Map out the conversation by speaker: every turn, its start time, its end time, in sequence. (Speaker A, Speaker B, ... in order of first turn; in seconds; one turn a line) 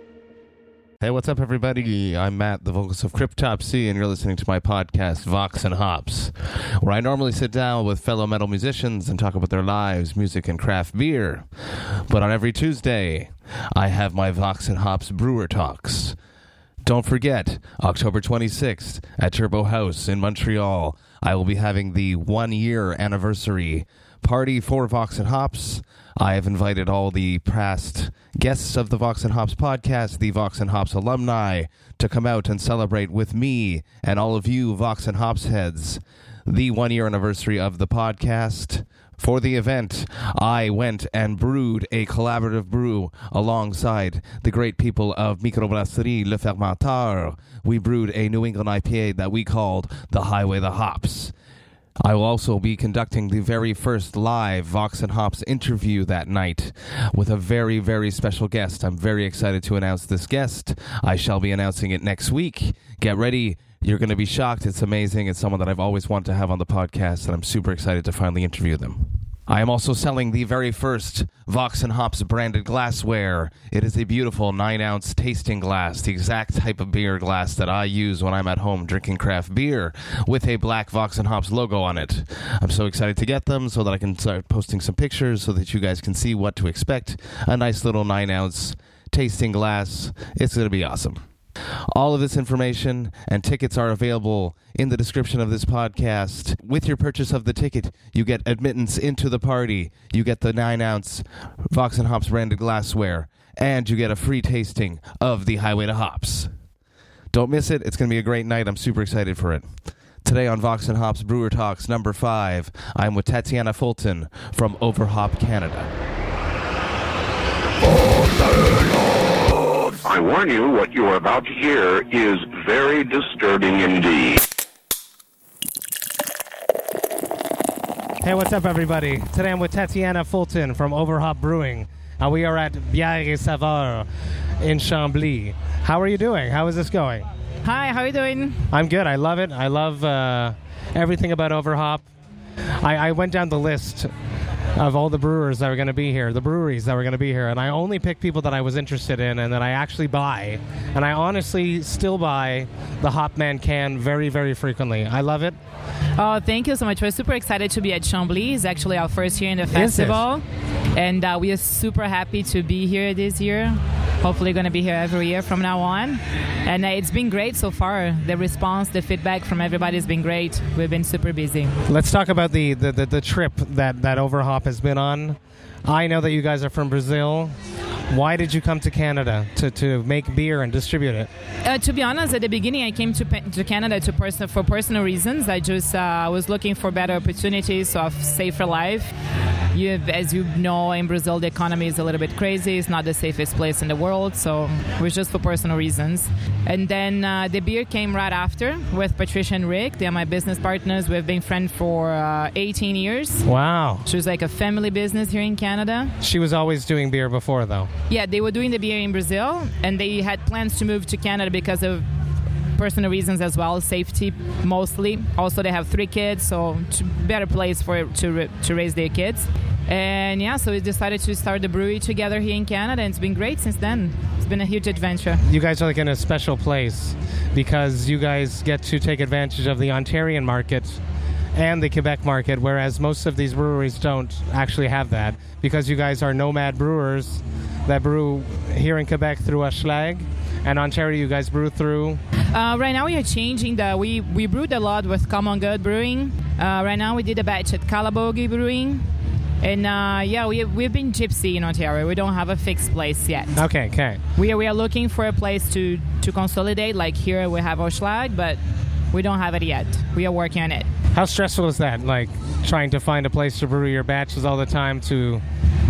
Speaker A: 1.0-16.2
Speaker A: 16.9-51.3
Speaker A: 52.0-91.2
Speaker A: 91.9-106.5
Speaker A: 107.3-109.7
Speaker A: 110.2-115.9
Speaker B: 120.0-124.4
Speaker C: 128.2-134.1
Speaker C: 134.6-137.3
Speaker D: 137.6-138.7
Speaker C: 138.7-142.0
Speaker C: 142.8-144.1
Speaker C: 144.8-155.6
Speaker D: 156.2-171.8
Speaker C: 159.7-160.2
Speaker C: 171.9-177.5
Speaker C: 178.1-181.3
Speaker D: 181.6-189.1
Speaker D: 189.7-203.5
Speaker C: 203.4-204.1
Speaker D: 204.1-206.2
Speaker C: 206.2-207.9
Speaker D: 208.1-212.1
Speaker D: 212.8-225.4
Speaker C: 225.5-231.0
Speaker C: 231.6-242.2
Speaker D: 242.5-249.1
Speaker D: 249.6-253.7
Speaker C: 253.6-254.2
Speaker D: 254.3-258.6
Speaker D: 259.1-260.9
Speaker C: 261.1-265.4